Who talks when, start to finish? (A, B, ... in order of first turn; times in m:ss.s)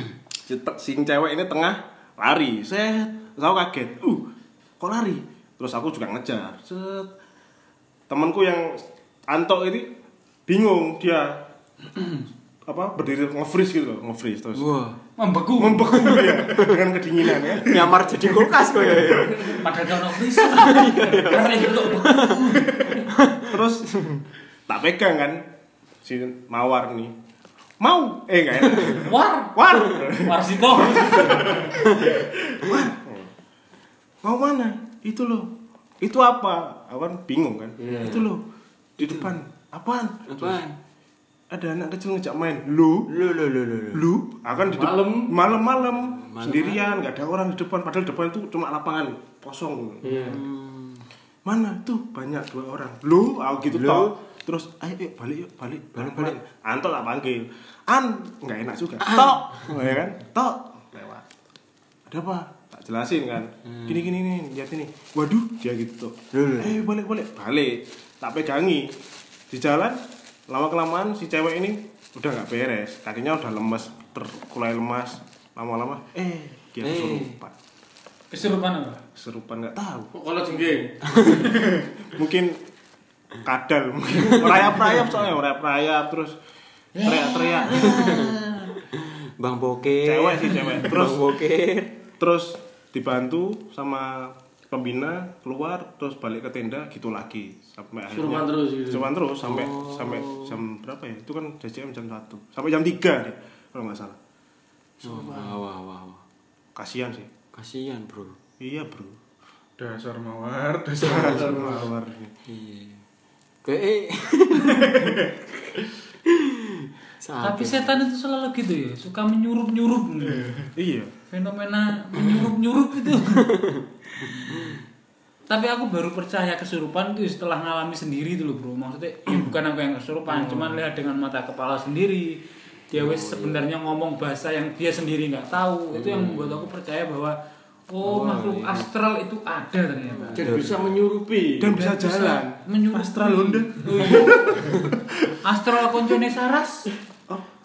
0:00.4-0:04.3 A
0:04.8-0:07.1 A
0:08.1-0:09.9 A
0:10.5-0:11.4 A
0:12.6-0:14.7 A
0:14.5-0:15.0 B
0:15.2-0:16.1 C
0:15.6-0:19.5 A
0:16.0-0:16.8 B
0:17.4-0:19.7 B
0:19.5-0:22.9 C
0:20.4-0:24.2 B
0:23.5-0:24.0 A
0:24.7-0:25.4 A
0:26.0-0:27.1 A
0:27.8-0:33.3 A
0:28.8-0:31.7 C
0:31.8-0:32.1 B
0:34.2-0:38.4 A
0:37.8-0:38.1 D
0:37.8-0:38.3 B
0:39.0-0:40.6 A
0:39.0-0:39.4 B
0:40.3-0:40.8 B
0:41.5-0:43.1 A
0:43.1-0:44.1 B
0:43.9-0:50.0 A
0:44.7-0:45.3 D
0:46.2-0:46.8 B
0:50.0-0:50.4 D
0:50.0-0:51.0 B
0:51.4-1:01.2 A
0:53.7-0:54.1 B
0:56.0-0:56.4 B
0:59.0-0:59.7 B
1:02.1-1:08.9 A
1:06.3-1:06.8 B
1:09.5-1:17.5 A
1:16.8-1:17.4 B
1:18.3-1:19.0 C
1:19.2-1:20.1 A
1:20.1-1:20.9 D
1:21.1-1:21.4 B
1:21.6-1:22.6 A
1:23.4-1:26.4 A
1:27.0-1:28.3 A
1:27.0-1:32.0 B
1:30.0-1:31.3 A
1:32.2-1:44.2 A
1:38.1-1:39.1 D
1:39.4-1:40.6 B
1:45.0-1:46.2 B
1:45.0-1:45.5 D
1:46.7-1:47.3 A
1:47.5-1:48.4 B
1:48.6-1:49.2 A
1:49.8-1:51.7 E
1:51.0-1:52.3 A
1:51.1-1:51.5 B
1:52.5-1:53.0 B
1:53.6-1:58.0 B
1:57.4-2:00.5 C
2:00.3-2:00.6 E
2:00.8-2:01.1 A
2:01.3-2:03.6 C
2:03.4-2:03.8 B
2:05.5-2:17.4 C
2:10.3-2:10.7 D
2:12.9-2:13.6 B
2:16.0-2:16.6 B
2:17.9-2:20.5 C
2:18.0-2:18.9 B
2:20.2-2:20.8 B
2:20.4-2:21.8 D
2:21.6-2:22.6 A
2:21.7-2:26.9 C
2:22.9-2:23.9 E
2:23.9-2:24.8 A